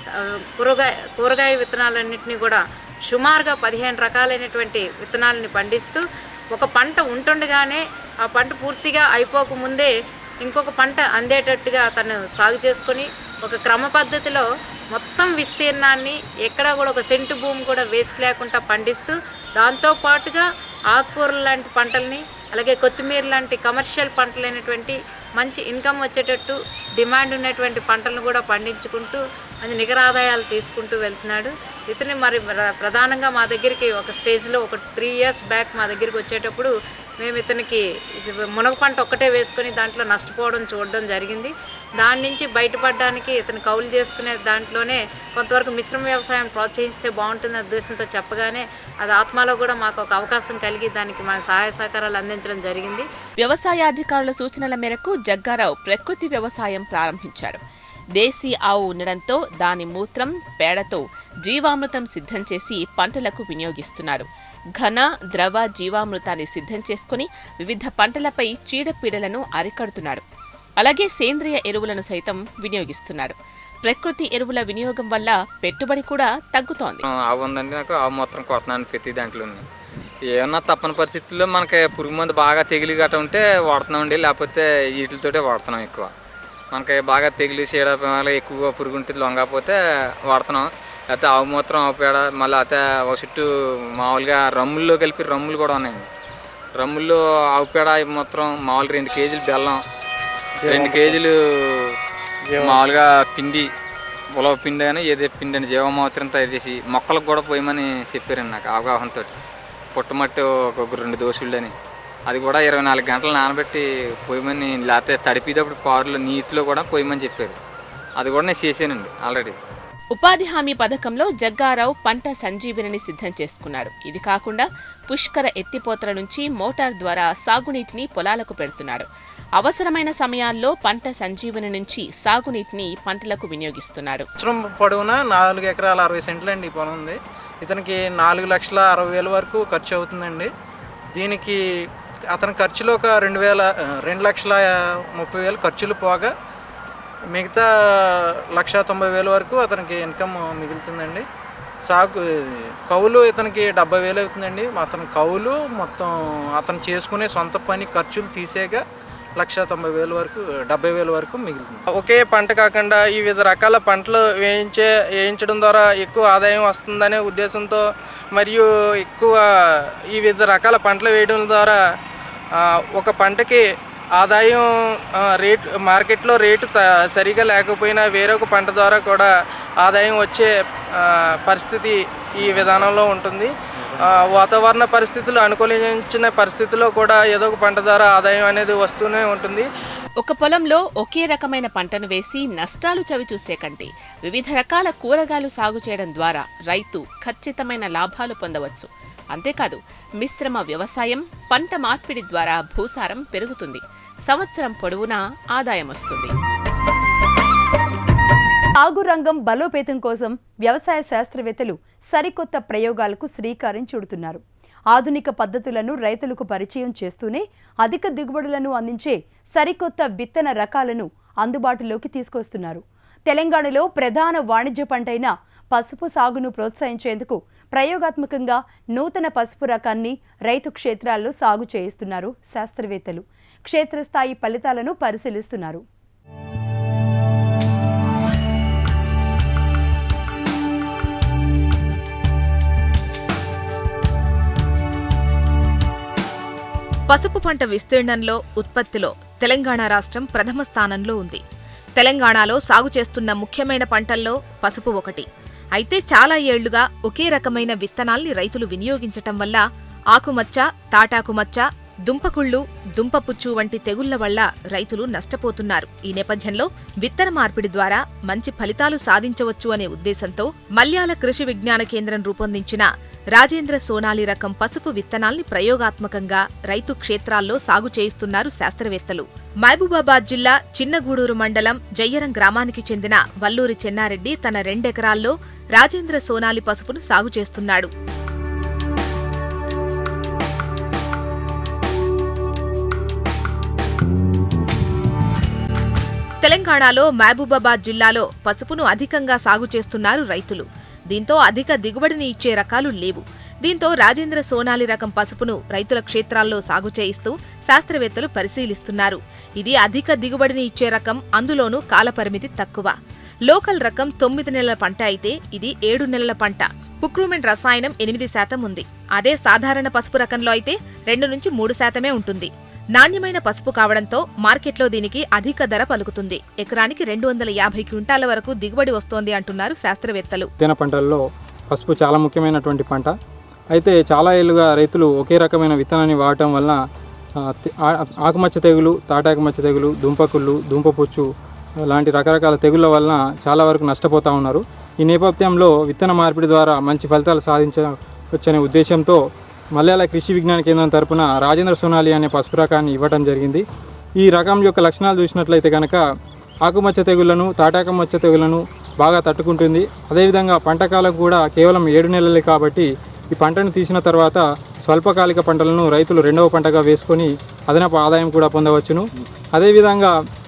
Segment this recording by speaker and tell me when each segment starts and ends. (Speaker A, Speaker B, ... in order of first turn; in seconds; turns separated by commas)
Speaker A: 0.2-53.1, Speaker B: 53.4-57.6, Speaker B: 58.2-64.3, Speaker B: 64.8-70.2, Speaker B: 70.8-77.0, Speaker C: 77.0-79.6, Speaker C: 80.3-86.1, Speaker C: 86.7-93.5, Speaker C: 94.0-96.0, Speaker C: 96.8-99.8, Speaker D: 100.6-101.2, Speaker C: 100.7-101.9, Speaker D: 102.5-102.9, Speaker C: 102.6-103.7, Speaker C: 104.4-109.3, Speaker C: 110.0-111.7, Speaker C: 112.3-117.6, Speaker C: 118.2-119.6, Speaker B: 120.2-129.1, Speaker B: 129.6-134.3, Speaker E: 134.4-140.5, Speaker E: 141.1-141.6, Speaker E: 142.3-146.3, Speaker E: 147.3-151.2, Speaker E: 151.9-158.8, Speaker E: 159.4-161.8, Speaker D: 161.9-171.8, Speaker D: 172.5-189.7, Speaker B: 190.2-206.3, Speaker F: 208.8-214.4, Speaker F: 214.9-235.8, Speaker G: 247.1-251.4, Speaker G: 252.0-287.9, Speaker G: 296.4-312.9, Speaker G: 313.5-330.5, Speaker H: 330.6-333.1, Speaker H: 333.7-336.8, Speaker H: 337.5-341.3, Speaker H: 341.9-349.2, Speaker H: 349.8-353.6, Speaker H: 354.2-356.0, Speaker H: 356.6-370.1